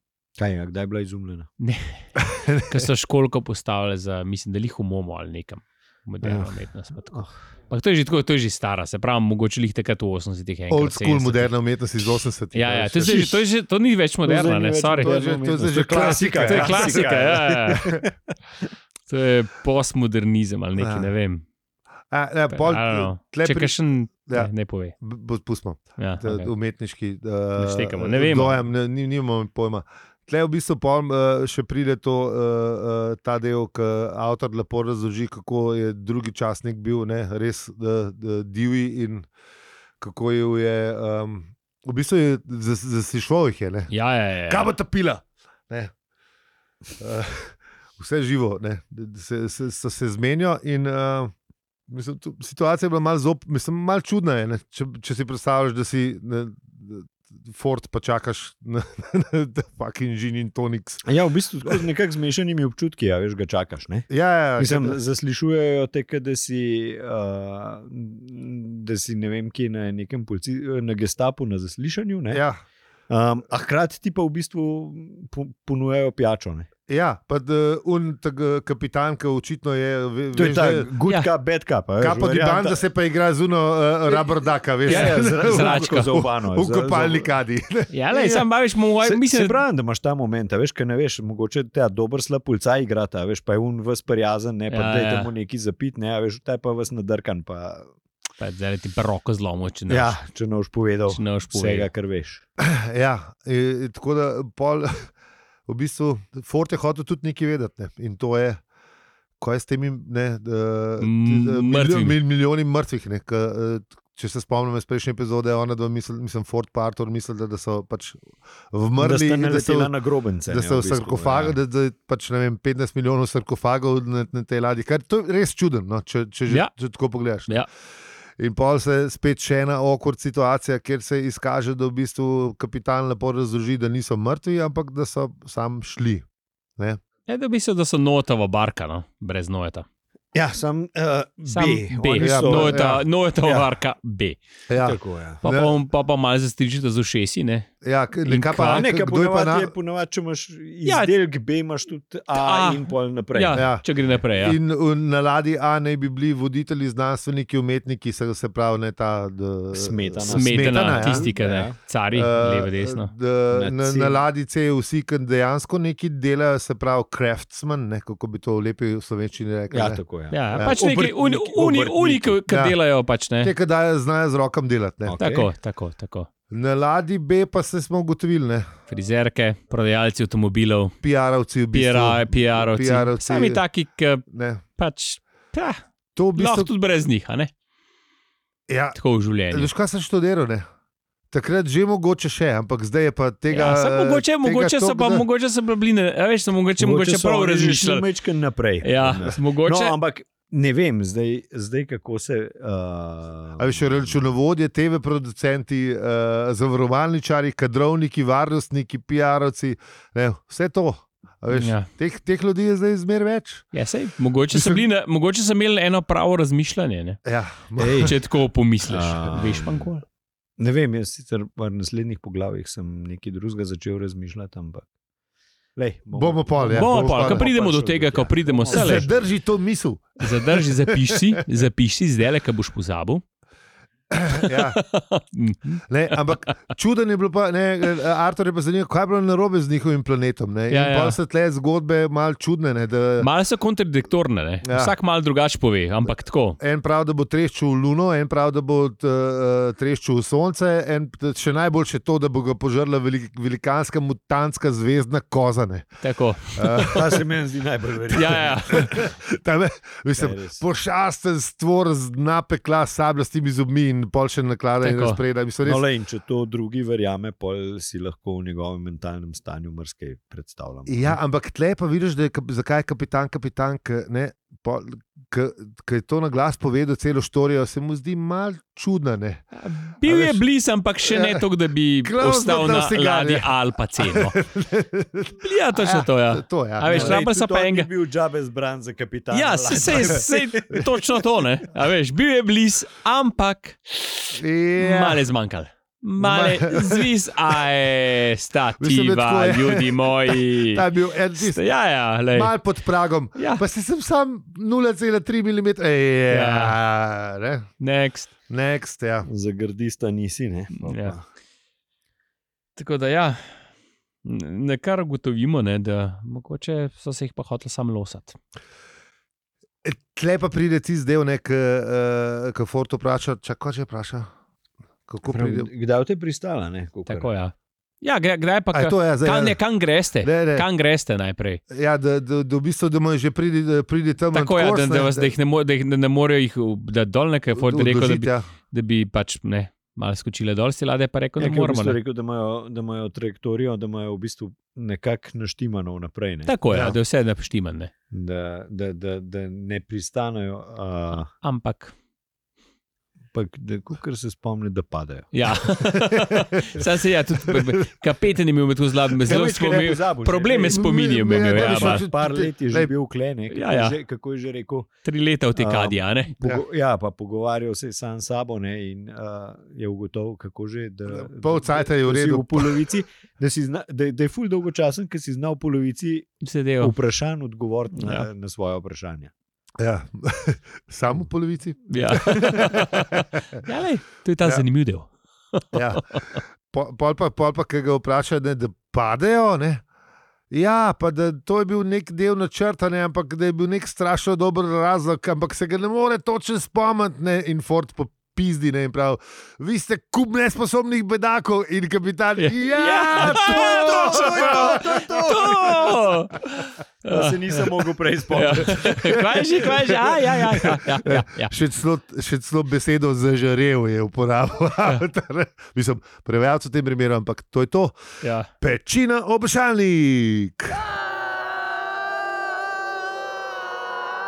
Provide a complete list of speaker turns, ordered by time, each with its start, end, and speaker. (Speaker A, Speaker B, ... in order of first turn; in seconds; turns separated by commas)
Speaker A: 0.4-1.5, Speaker B: 1.6-2.1, Speaker C: 2.2-2.9, Speaker B: 2.6-11.5, Speaker A: 6.2-6.5, Speaker C: 10.7-13.4, Speaker B: 12.5-15.1, Speaker A: 13.1-13.3, Speaker A: 14.2-18.6, Speaker C: 15.0-17.1, Speaker B: 15.8-17.9, Speaker C: 17.7-18.0, Speaker B: 19.1-21.4, Speaker C: 20.8-21.1, Speaker C: 22.1-39.3, Speaker B: 22.5-24.9, Speaker B: 26.0-26.5, Speaker B: 27.6-28.6, Speaker C: 40.0-43.9, Speaker B: 43.9-44.7, Speaker C: 44.5-45.9, Speaker C: 47.0-51.3, Speaker C: 51.9-61.0, Speaker A: 61.0-64.1, Speaker C: 64.1-65.0, Speaker A: 64.6-72.4, Speaker C: 72.3-72.6, Speaker A: 73.1-76.7, Speaker C: 76.9-80.9, Speaker A: 80.3-82.8, Speaker C: 82.0-87.9, Speaker A: 84.8-87.3, Speaker B: 84.9-86.2, Speaker B: 87.9-89.6, Speaker A: 88.1-88.5, Speaker A: 89.0-97.9, Speaker B: 94.7-95.3, Speaker B: 98.4-100.2, Speaker A: 99.9-102.4, Speaker B: 101.1-101.9, Speaker C: 102.6-105.1, Speaker C: 105.7-108.6, Speaker C: 109.4-119.9, Speaker B: 111.0-112.2, Speaker A: 119.0-121.6, Speaker C: 120.5-127.6, Speaker C: 128.4-136.2, Speaker B: 137.3-139.8, Speaker A: 140.3-143.7, Speaker B: 141.5-144.4, Speaker C: 142.2-143.0, Speaker C: 144.7-145.8, Speaker A: 144.8-145.4, Speaker B: 145.4-147.7, Speaker C: 147.8-149.7, Speaker B: 148.2-148.8, Speaker A: 148.6-153.7, Speaker B: 150.8-151.1, Speaker B: 152.3-154.6, Speaker C: 153.5-153.9, Speaker C: 154.4-161.3, Speaker A: 159.7-161.8, Speaker B: 160.3-163.1, Speaker C: 162.1-170.0, Speaker A: 163.5-164.2, Speaker A: 169.7-172.4, Speaker B: 170.3-173.5, Speaker C: 172.5-172.8, Speaker C: 173.4-175.2, Speaker A: 175.0-175.5, Speaker B: 175.2-176.3, Speaker C: 176.5-178.7, Speaker B: 178.9-180.9, Speaker C: 181.0-183.6, Speaker B: 181.7-184.2, Speaker C: 184.3-184.6, Speaker B: 184.8-185.8, Speaker C: 186.2-186.7, Speaker B: 186.3-187.5, Speaker C: 188.7-189.0, Speaker B: 188.9-189.7, Speaker C: 189.5-190.6, Speaker C: 191.3-195.2, Speaker B: 193.5-198.1, Speaker A: 196.8-204.2, Speaker B: 198.8-200.0, Speaker C: 203.6-213.7, Speaker B: 211.5-211.9, Speaker B: 213.7-217.2, Speaker C: 214.5-214.8, Speaker C: 217.2-218.1, Speaker A: 217.8-218.2, Speaker B: 217.9-220.0, Speaker A: 218.8-219.9, Speaker A: 220.6-224.8, Speaker A: 225.8-229.3, Speaker C: 226.1-227.4, Speaker B: 226.7-229.1, Speaker C: 228.7-231.2, Speaker B: 230.2-233.2, Speaker C: 234.1-234.8, Speaker B: 234.3-236.4, Speaker C: 235.9-243.3, Speaker B: 240.7-241.2, Speaker B: 243.2-246.6, Speaker C: 244.6-244.9, Speaker C: 246.6-256.0, Speaker B: 256.0-257.0, Speaker C: 256.6-257.0, Speaker A: 256.9-259.0, Speaker B: 258.1-259.1, Speaker C: 258.7-265.8, Speaker A: 260.1-260.6, Speaker B: 264.8-265.2, Speaker A: 265.6-271.2, Speaker C: 270.9-279.4, Speaker B: 279.5-284.4, Speaker C: 280.0-280.4, Speaker C: 281.1-281.4, Speaker C: 282.0-287.2, Speaker B: 285.4-287.9, Speaker A: 286.9-291.0, Speaker B: 289.3-302.5, Speaker C: 294.3-295.2, Speaker C: 296.2-297.6, Speaker C: 298.8-301.6, Speaker C: 302.3-307.7, Speaker B: 303.3-303.6, Speaker B: 306.3-306.8, Speaker B: 307.8-308.3, Speaker C: 308.5-309.3, Speaker A: 309.2-311.2, Speaker B: 310.7-311.2, Speaker B: 312.8-313.7, Speaker B: 314.2-318.4, Speaker C: 319.8-324.3, Speaker C: 325.1-325.7, Speaker A: 325.2-327.3, Speaker B: 327.1-331.6, Speaker C: 328.7-329.6, Speaker C: 330.2-330.6, Speaker C: 331.7-335.3, Speaker B: 334.3-342.0, Speaker C: 337.6-338.4, Speaker A: 341.4-346.9, Speaker B: 346.4-347.9, Speaker A: 348.1-351.3, Speaker B: 351.3-351.9, Speaker A: 353.3-355.7, Speaker B: 355.3-362.1, Speaker C: 356.0-356.8, Speaker A: 359.2-364.9, Speaker C: 360.7-362.9, Speaker B: 363.5-363.9, Speaker B: 365.0-366.3, Speaker A: 365.5-379.3, Speaker C: 371.1-372.9, Speaker B: 376.4-376.9, Speaker B: 378.0-378.2, Speaker C: 379.8-383.6, Speaker B: 381.9-386.4, Speaker C: 385.7-389.8, Speaker C: 390.5-405.3, Speaker B: 402.4-407.7, Speaker A: 403.1-406.1, Speaker A: 407.1-409.4, Speaker B: 408.3-411.5, Speaker C: 408.9-418.0, Speaker B: 418.2-418.5, Speaker C: 418.6-420.8